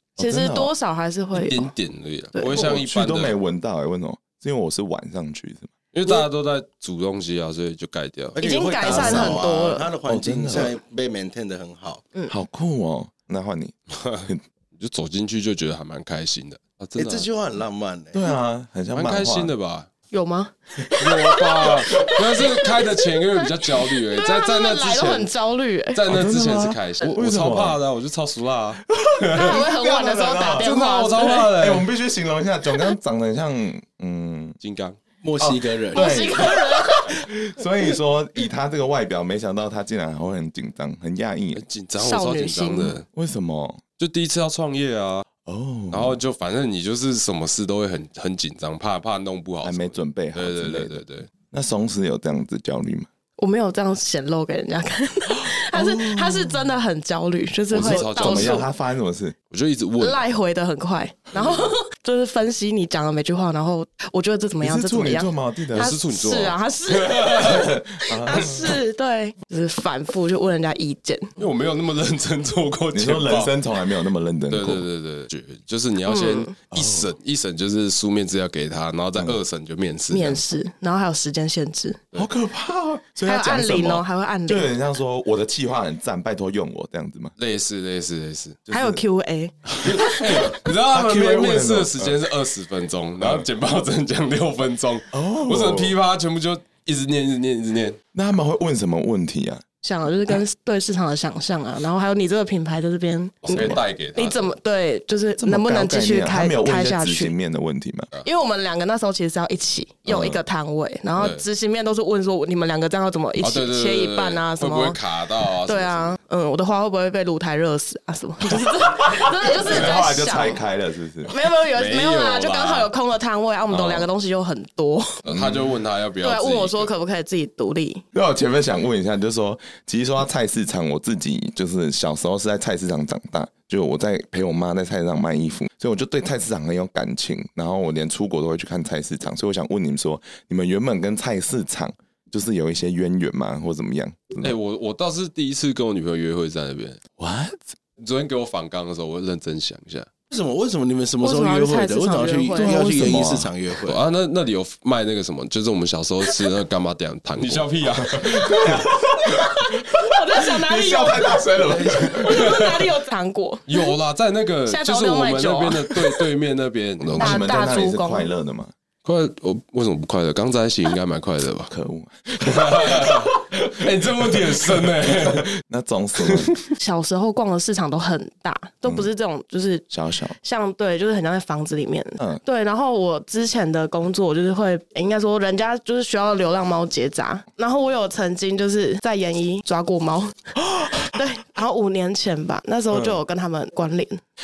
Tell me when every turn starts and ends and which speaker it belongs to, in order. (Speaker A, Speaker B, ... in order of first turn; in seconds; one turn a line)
Speaker A: 0.2-0.7
Speaker B: 0.2-1.7
Speaker C: 1.3-3.4
Speaker A: 2.4-5.7
Speaker C: 5.9-8.4
Speaker D: 8.3-12.1
Speaker B: 8.4-9.9
Speaker A: 8.8-9.4
Speaker A: 10.1-10.8
Speaker A: 12.3-14.4
Speaker C: 13.9-17.3
Speaker D: 17.0-18.2
Speaker A: 18.1-19.5
Speaker C: 18.9-19.9
Speaker B: 20.1-26.0
Speaker C: 21.0-25.3
Speaker C: 25.9-29.6
Speaker A: 26.1-27.8
Speaker A: 28.9-30.7
Speaker B: 29.3-31.5
Speaker C: 30.6-31.9
Speaker A: 31.3-34.6
Speaker C: 34.6-35.0
Speaker D: 35.2-36.3
Speaker A: 35.4-41.6
Speaker B: 35.9-37.2
Speaker C: 41.6-43.1
Speaker B: 42.0-43.0
Speaker A: 43.1-43.8
Speaker C: 44.0-45.3
Speaker A: 45.5-46.2
Speaker C: 45.9-51.3
Speaker A: 49.6-53.1
Speaker B: 53.4-58.7
Speaker A: 55.3-56.8
Speaker C: 57.7-58.7
Speaker A: 57.8-59.4
Speaker C: 59.5-60.2
Speaker B: 60.0-67.6
Speaker A: 64.6-65.9
Speaker C: 65.7-67.7
Speaker A: 67.4-68.8
Speaker B: 68.3-71.3
Speaker C: 71.4-73.5
Speaker A: 72.9-74.9
Speaker C: 74.5-80.4
Speaker B: 76.0-76.5
Speaker A: 76.7-77.1
Speaker B: 80.1-82.0
Speaker A: 82.1-87.3
Speaker B: 83.2-84.7
Speaker C: 87.4-88.9
Speaker B: 88.7-90.3
Speaker C: 89.7-98.0
Speaker A: 90.5-92.2
Speaker A: 93.2-93.5
Speaker A: 95.1-96.0
Speaker A: 98.2-99.6
Speaker B: 99.8-107.3
Speaker C: 103.5-104.5
Speaker A: 105.4-108.1
Speaker B: 108.2-115.0
Speaker A: 110.1-110.4
Speaker C: 111.2-111.4
Speaker C: 113.4-116.2
Speaker B: 115.6-120.6
Speaker A: 119.2-121.3
Speaker B: 121.3-125.2
Speaker C: 121.7-122.9
Speaker C: 123.7-124.1
Speaker C: 125.2-126.9
Speaker A: 125.3-125.8
Speaker B: 126.2-128.0
Speaker A: 128.1-144.6
Speaker C: 144.4-147.0
Speaker A: 147.2-147.6
Speaker C: 148.0-150.1
Speaker D: 150.3-154.0
Speaker B: 151.2-152.8
Speaker A: 152.6-153.5
Speaker C: 153.8-158.7
Speaker A: 158.0-162.6
Speaker B: 159.2-161.4
Speaker D: 161.6-162.2
Speaker B: 162.1-163.9
Speaker C: 162.3-162.8
Speaker C: 163.7-167.8
Speaker B: 164.7-166.1
Speaker A: 167.1-168.7
Speaker B: 167.2-168.3
Speaker C: 169.1-171.7
Speaker A: 171.7-176.6
Speaker C: 172.4-175.5
Speaker C: 176.2-176.5
Speaker B: 176.8-179.8
Speaker A: 179.9-180.4
Speaker B: 180.4-190.4
Speaker A: 190.7-191.1
Speaker B: 191.1-194.2
Speaker A: 192.9-193.2